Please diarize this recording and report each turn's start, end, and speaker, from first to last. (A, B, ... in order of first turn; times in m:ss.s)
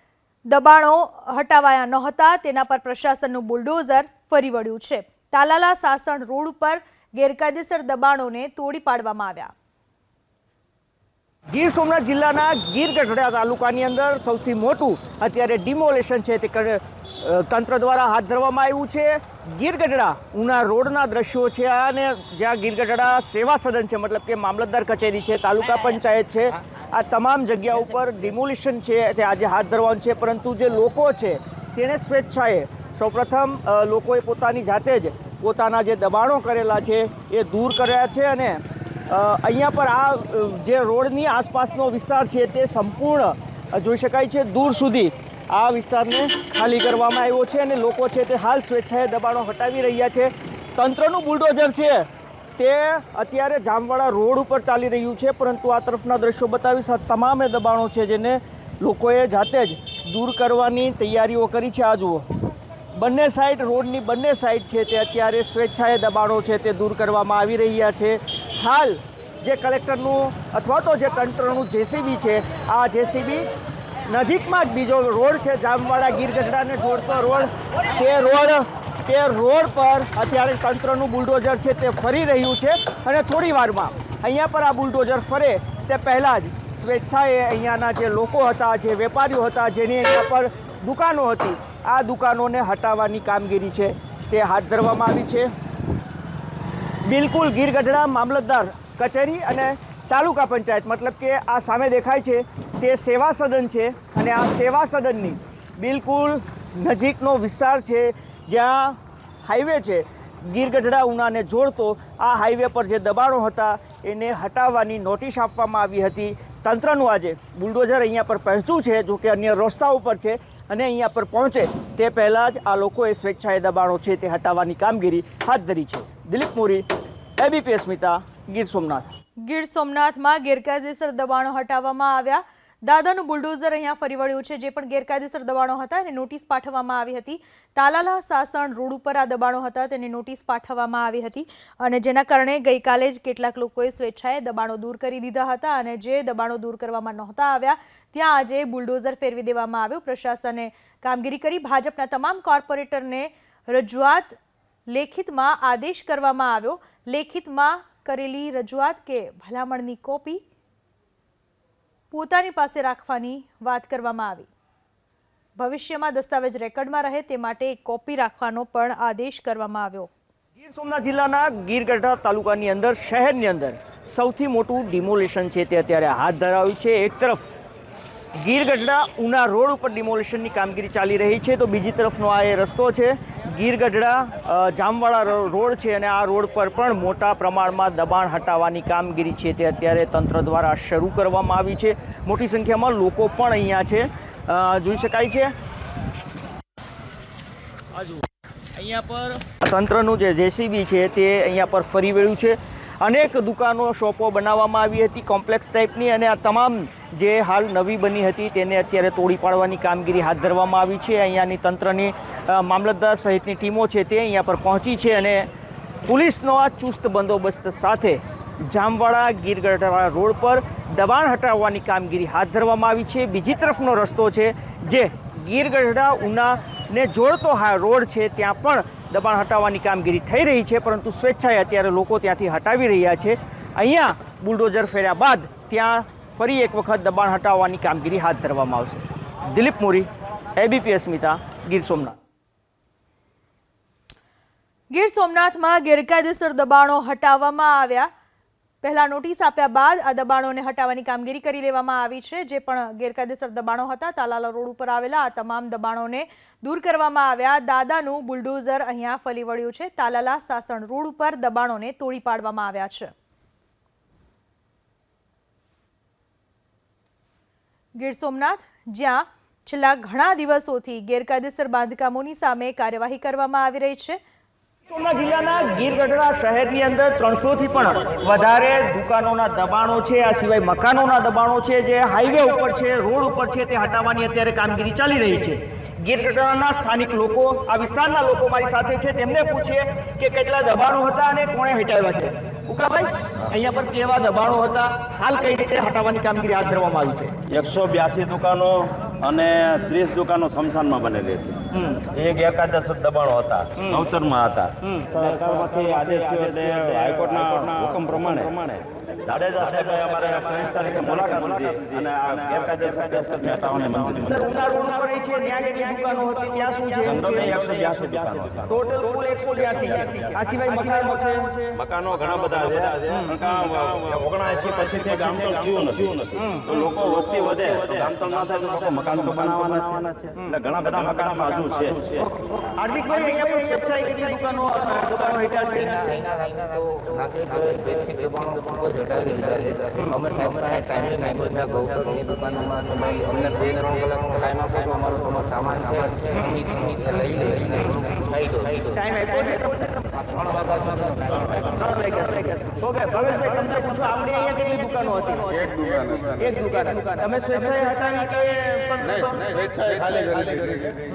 0:00.5-0:09.5 A
0:11.5-0:52.1 B
0:52.6-1:02.2 B
1:02.9-1:13.5 B
1:14.1-1:35.5 B
1:37.0-2:06.8 B
2:07.4-2:09.1 B
2:09.4-2:34.4 A
2:34.9-2:40.4 A
2:42.1-2:44.5 A
2:45.6-2:50.1 A
2:50.6-2:57.5 B
2:58.4-3:15.5 B
3:17.9-3:35.5 B
3:36.0-4:02.2 B
4:04.9-4:08.1 A
4:08.8-4:23.1 A
4:28.0-4:34.2 A
4:34.9-4:57.3 B
4:57.5-5:14.5 C
5:14.2-5:17.7 B
5:17.0-5:18.7 C
5:18.6-5:21.7 B
5:19.6-5:20.4 C
5:21.7-5:32.3 C
5:32.4-5:36.2 B
5:36.0-5:48.9 D
5:48.9-5:50.2 B
5:50.3-5:51.6 D
5:51.5-6:00.9 B